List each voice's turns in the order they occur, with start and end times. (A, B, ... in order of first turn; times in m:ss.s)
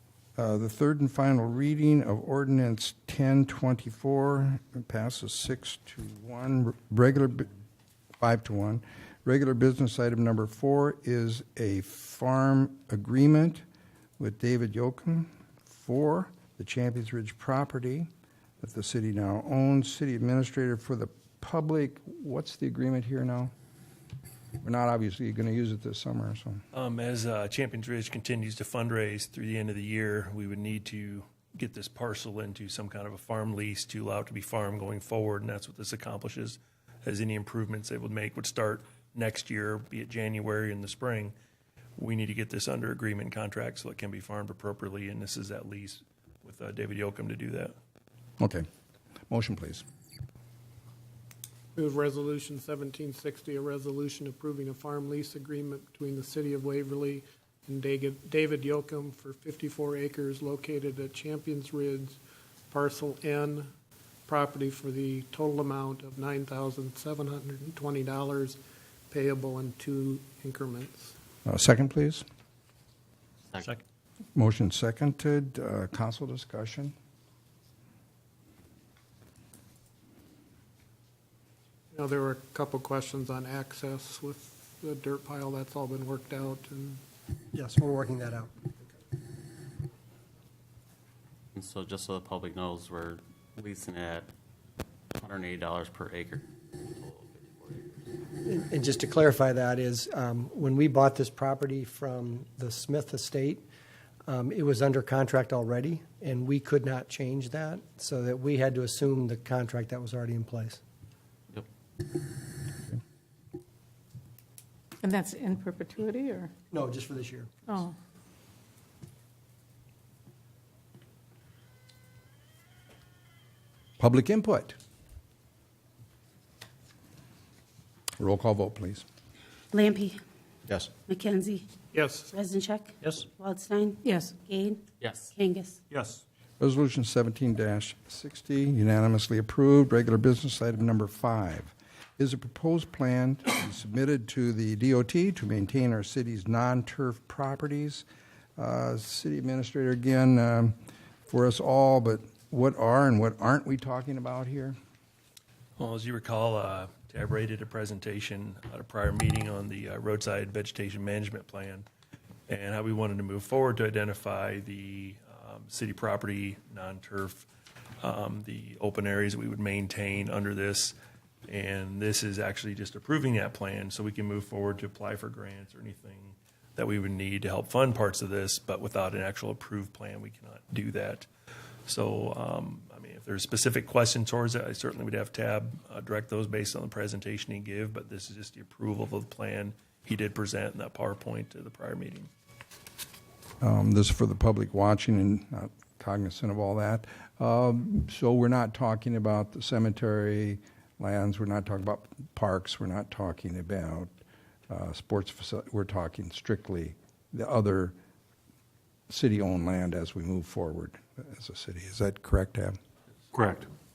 0:00.4-0:07.5 A
0:08.2-0:13.6 A
0:14.2-0:18.1 A
0:18.6-0:23.5 A
0:24.6-0:26.6 A
0:26.7-0:41.3 B
0:42.0-0:47.8 B
0:48.4-0:48.6 A
0:49.3-0:49.8 A
0:51.8-1:02.2 C
1:02.7-1:03.7 C
1:04.3-1:08.6 C
1:09.1-1:11.1 C
1:11.4-1:12.2 A
1:13.5-1:13.8 D
1:14.4-1:16.9 A
1:21.9-1:27.0 C
1:27.5-1:28.7 E
1:31.5-1:34.3 D
1:35.2-1:38.1 D
1:38.4-1:43.7 E
1:44.3-1:50.8 E
1:55.0-1:56.5 F
1:56.7-1:57.5 E
1:57.7-1:58.0 F
2:04.0-2:04.8 A
2:08.2-2:09.0 A
2:09.7-2:10.2 G
2:11.1-2:11.7 G
2:11.9-2:12.3 C
2:12.3-2:15.8 G
2:14.0-2:14.3 F
2:15.0-2:15.3 D
2:16.6-2:28.1 A
2:28.6-2:30.8 A
2:31.3-2:34.8 A
2:35.8-2:41.9 B
2:42.5-2:47.5 B
2:48.0-2:51.0 B
2:51.5-3:01.3 B
3:01.9-3:12.3 B
3:13.6-3:24.1 A
3:24.7-3:28.0 A
3:29.1-3:32.8 A